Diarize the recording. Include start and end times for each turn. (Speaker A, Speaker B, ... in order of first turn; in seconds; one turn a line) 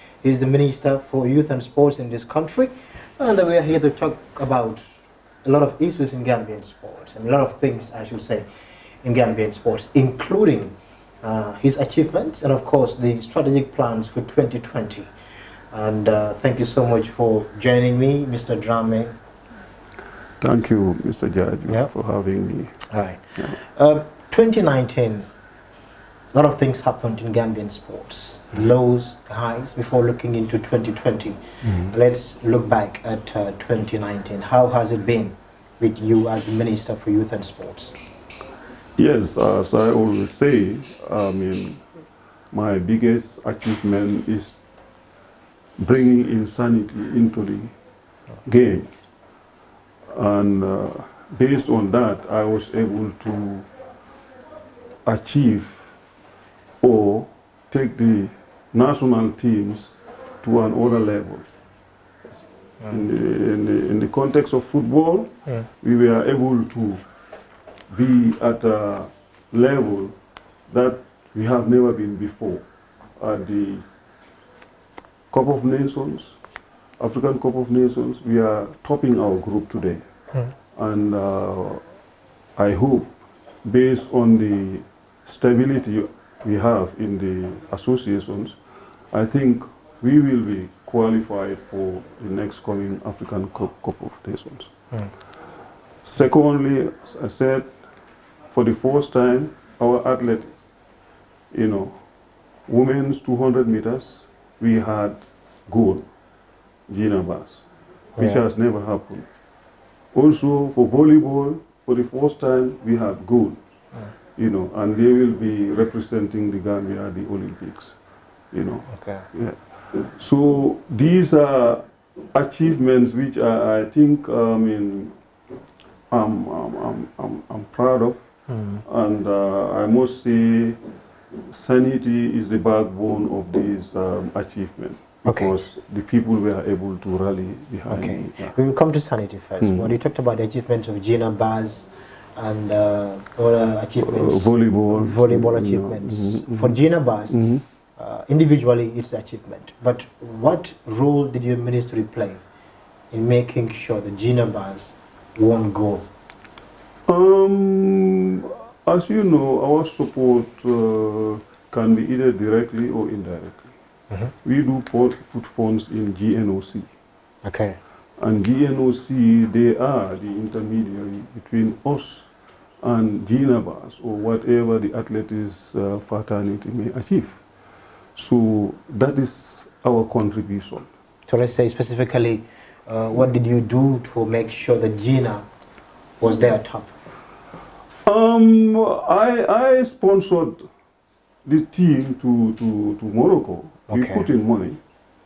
Speaker A: 0.2-4.8
Speaker A: 5.5-8.5
Speaker A: 9.0-15.1
Speaker A: 15.7-19.1
Speaker B: 20.4-22.8
Speaker A: 22.9-25.3
Speaker A: 26.3-38.0
Speaker B: 39.0-41.8
Speaker B: 42.5-44.6
Speaker B: 45.8-47.7
Speaker B: 48.5-48.9
Speaker B: 50.1-53.7
Speaker B: 55.1-55.8
Speaker B: 56.8-59.9
Speaker B: 60.4-61.5
Speaker B: 62.9-67.0
Speaker B: 67.9-70.2
Speaker B: 70.7-72.7
Speaker B: 73.2-73.8
Speaker B: 75.3-76.4
Speaker B: 77.0-80.0
Speaker B: 80.8-81.8
Speaker B: 82.6-83.1
Speaker B: 83.7-88.6
Speaker B: 89.1-94.7
Speaker B: 96.0-97.7
Speaker B: 98.5-100.7
Speaker B: 101.5-102.0
Speaker B: 102.7-106.0
Speaker B: 106.9-107.7
Speaker A: 108.2-108.4
Speaker B: 108.2-109.3
Speaker B: 110.1-113.6
Speaker B: 114.4-118.0
Speaker B: 118.5-125.2
Speaker A: 118.9-119.3
Speaker B: 126.1-128.2
Speaker A: 128.5-128.8
Speaker B: 128.8-130.8
Speaker B: 131.5-138.5
Speaker A: 135.3-135.6
Speaker A: 137.9-147.4
Speaker B: 139.6-139.9
Speaker B: 144.0-146.8
Speaker B: 147.3-147.6
Speaker A: 148.0-152.4
Speaker A: 153.1-156.1
Speaker B: 157.1-163.7
Speaker B: 164.4-166.9
Speaker A: 167.4-167.8
Speaker B: 168.2-172.3
Speaker B: 172.8-177.4
Speaker B: 178.2-180.9
Speaker A: 181.3-185.5
Speaker A: 186.2-186.9
Speaker B: 188.1-190.7
Speaker B: 191.4-194.8
Speaker A: 193.9-194.3